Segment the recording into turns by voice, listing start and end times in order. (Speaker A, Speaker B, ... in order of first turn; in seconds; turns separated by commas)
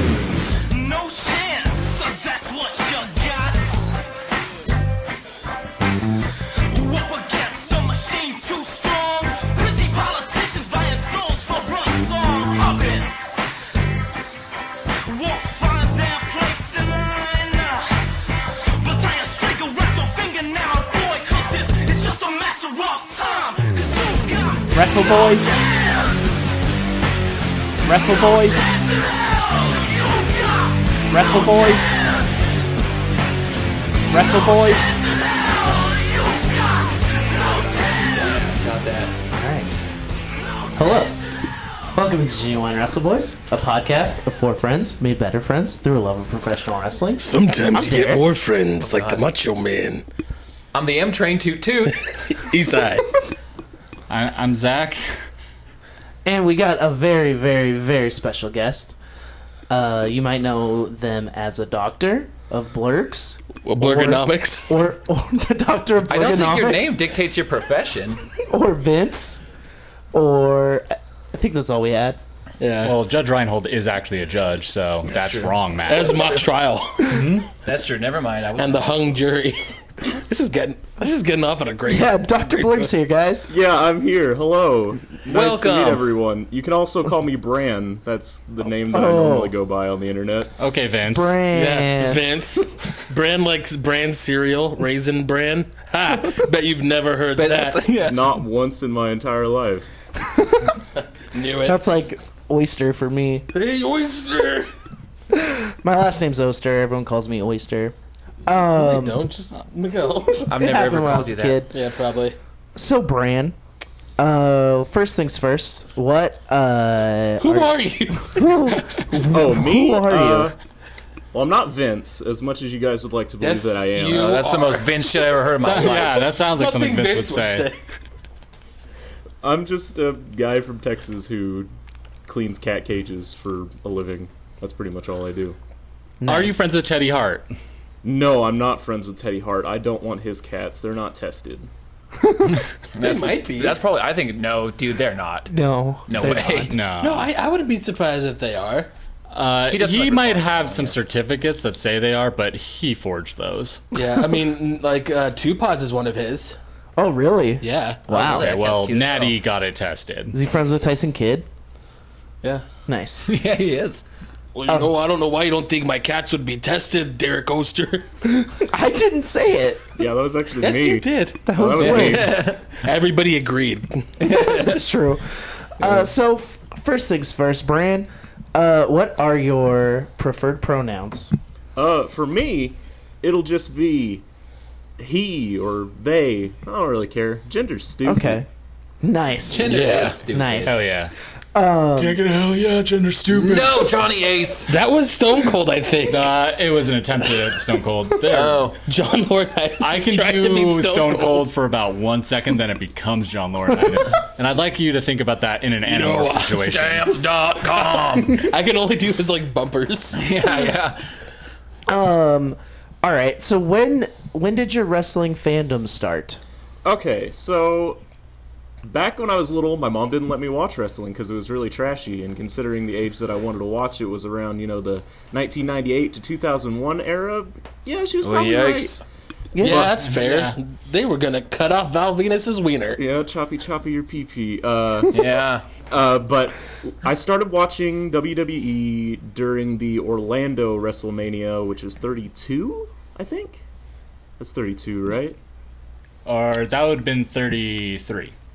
Speaker A: 0.7-3.9, Speaker A: 6.7-13.4, Speaker A: 15.0-17.9, Speaker A: 18.8-26.4, Speaker B: 24.7-25.5, Speaker B: 27.9-28.6, Speaker A: 28.5-31.4, Speaker B: 31.1-31.8, Speaker B: 34.1-34.8, Speaker A: 34.9-38.1, Speaker C: 38.0-39.1, Speaker D: 39.3-39.7, Speaker A: 40.4-40.9, Speaker D: 40.8-41.1, Speaker D: 41.9-48.2, Speaker E: 47.2-50.0, Speaker C: 48.8-49.3, Speaker C: 50.7-52.0, Speaker E: 51.9-53.0, Speaker F: 54.1-55.1, Speaker D: 56.2-59.0, Speaker D: 59.7-67.0, Speaker E: 63.6-64.7, Speaker C: 66.1-68.2, Speaker D: 68.5-69.4, Speaker D: 70.1-72.2, Speaker E: 72.6-73.0, Speaker F: 72.8-76.3, Speaker C: 75.1-76.4, Speaker E: 75.8-77.3, Speaker F: 77.0-77.5, Speaker C: 77.6-78.9, Speaker E: 78.6-82.9, Speaker D: 81.9-83.5, Speaker G: 83.5-90.5, Speaker C: 85.3-86.1, Speaker D: 88.9-89.5, Speaker F: 90.6-91.4, Speaker D: 91.1-92.3, Speaker E: 91.5-97.8, Speaker C: 97.3-98.3, Speaker G: 98.0-99.9, Speaker D: 100.2-100.7, Speaker E: 101.3-101.8, Speaker D: 101.6-103.5, Speaker E: 103.5-104.7, Speaker D: 105.4-107.9, Speaker D: 108.5-109.2, Speaker E: 108.7-110.8, Speaker C: 110.5-111.6, Speaker D: 110.5-111.7, Speaker E: 111.7-112.4, Speaker D: 112.8-113.5, Speaker D: 114.2-120.5, Speaker E: 117.4-118.7, Speaker G: 119.2-120.6, Speaker G: 121.3-124.3, Speaker E: 123.4-127.8, Speaker C: 123.9-126.2, Speaker F: 125.6-127.7, Speaker G: 129.4-131.7, Speaker G: 132.3-135.6, Speaker D: 136.2-136.7, Speaker F: 136.2-137.5, Speaker G: 138.0-141.7, Speaker D: 142.2-142.5, Speaker C: 142.9-145.5, Speaker E: 143.0-143.8, Speaker D: 145.5-146.8, Speaker C: 146.1-146.8, Speaker F: 146.7-147.3, Speaker E: 147.0-148.9, Speaker F: 149.3-153.8, Speaker C: 149.7-151.0, Speaker E: 153.9-156.6, Speaker D: 157.0-158.4, Speaker E: 157.6-158.1, Speaker C: 158.1-159.3, Speaker F: 158.2-160.3, Speaker D: 160.3-161.5, Speaker D: 162.9-163.3, Speaker C: 163.2-164.0, Speaker E: 164.5-168.1, Speaker D: 168.5-169.8, Speaker G: 170.0-172.4, Speaker E: 170.6-174.5, Speaker D: 171.4-172.3, Speaker C: 171.8-172.6, Speaker C: 174.2-174.8, Speaker D: 174.4-181.3, Speaker G: 181.8-184.2, Speaker G: 185.0-188.4, Speaker D: 188.0-188.4, Speaker D: 189.0-189.7, Speaker C: 189.5-190.8, Speaker E: 189.6-190.2, Speaker D: 190.2-190.8, Speaker F: 190.6-191.1, Speaker D: 191.5-192.2, Speaker F: 192.0-194.0, Speaker C: 193.3-194.7, Speaker E: 194.7-196.4, Speaker F: 196.1-198.7, Speaker C: 198.3-198.8, Speaker E: 198.8-201.5, Speaker F: 199.8-207.2, Speaker E: 205.8-210.3, Speaker C: 207.3-208.5, Speaker C: 210.2-211.0, Speaker D: 211.9-216.4, Speaker G: 216.8-218.0, Speaker G: 218.8-229.0, Speaker C: 228.2-229.0, Speaker D: 229.5-229.9, Speaker E: 229.6-233.0, Speaker C: 229.6-229.9, Speaker F: 229.9-230.6, Speaker G: 232.9-235.2, Speaker C: 235.1-235.6, Speaker G: 235.8-243.6, Speaker G: 244.4-245.4, Speaker F: 246.2-248.3